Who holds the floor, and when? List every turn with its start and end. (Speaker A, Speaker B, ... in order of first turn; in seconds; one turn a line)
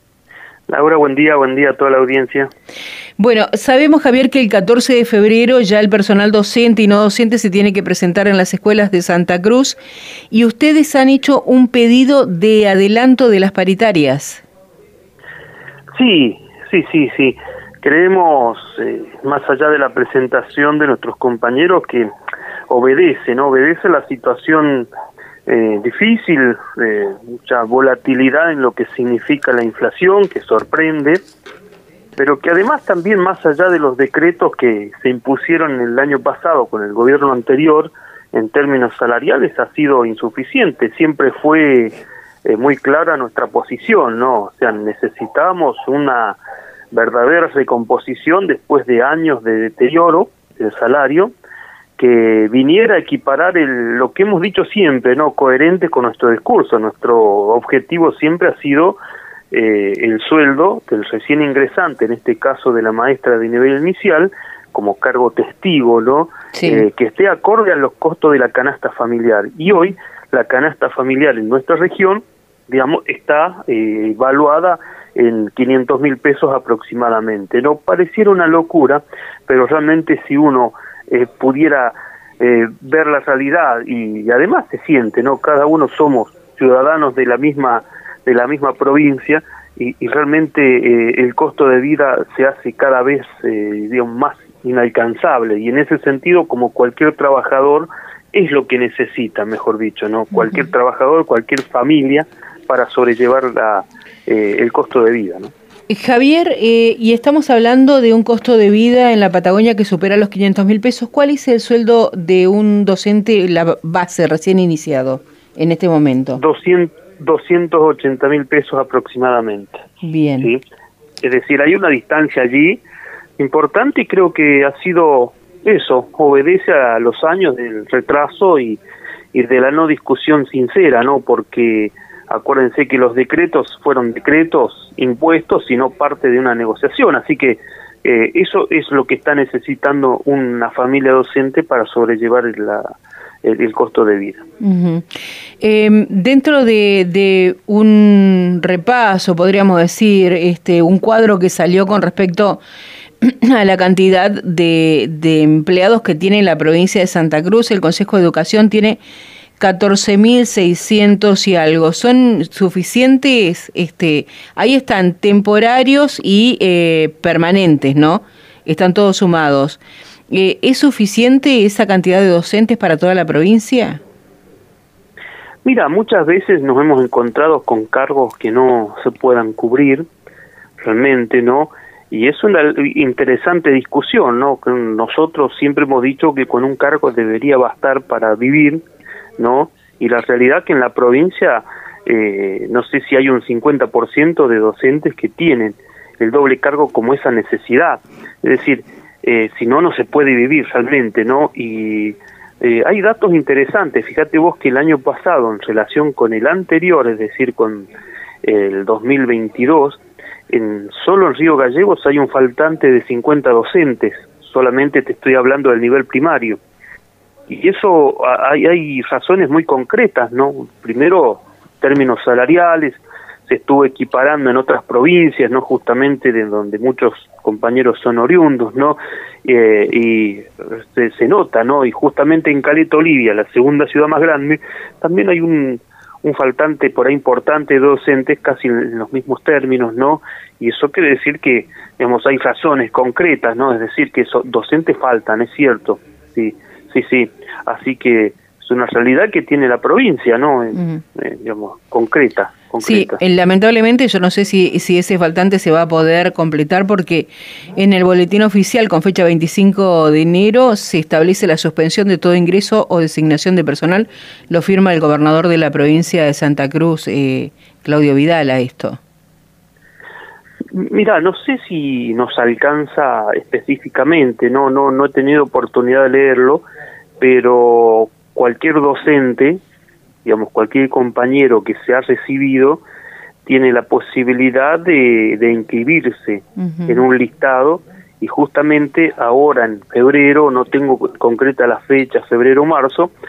Speaker A: 0.7-2.5
Speaker B: 3.2-9.8
Speaker B: 10.3-14.4
Speaker A: 15.9-22.1
Speaker A: 22.7-24.9
Speaker A: 25.5-31.2
Speaker A: 32.2-46.4
Speaker A: 46.9-51.3
Speaker A: 52.0-59.0
Speaker A: 59.5-105.5
Speaker B: 66.5-66.8
Speaker B: 105.9-116.4
Speaker A: 116.4-119.8
Speaker B: 120.0-120.5
Speaker A: 121.2-122.8
Speaker A: 123.4-128.8
Speaker A: 129.3-144.4
Speaker B: 144.6-145.0
Speaker B: 145.6-152.6
Speaker B: 153.2-159.0
Speaker B: 159.6-174.0
Speaker A: 175.6-180.1
Speaker A: 180.8-188.8
Speaker A: 189.4-207.9
Speaker A: 208.4-216.6
Speaker A: 217.5-253.2
Speaker B: 250.8-251.0
Speaker B: 252.8-269.0
Speaker A: 270.7-276.6
Speaker A: 277.2-279.6
Speaker A: 280.2-282.8
Speaker A: 283.4-293.1
Speaker B: 286.6-287.0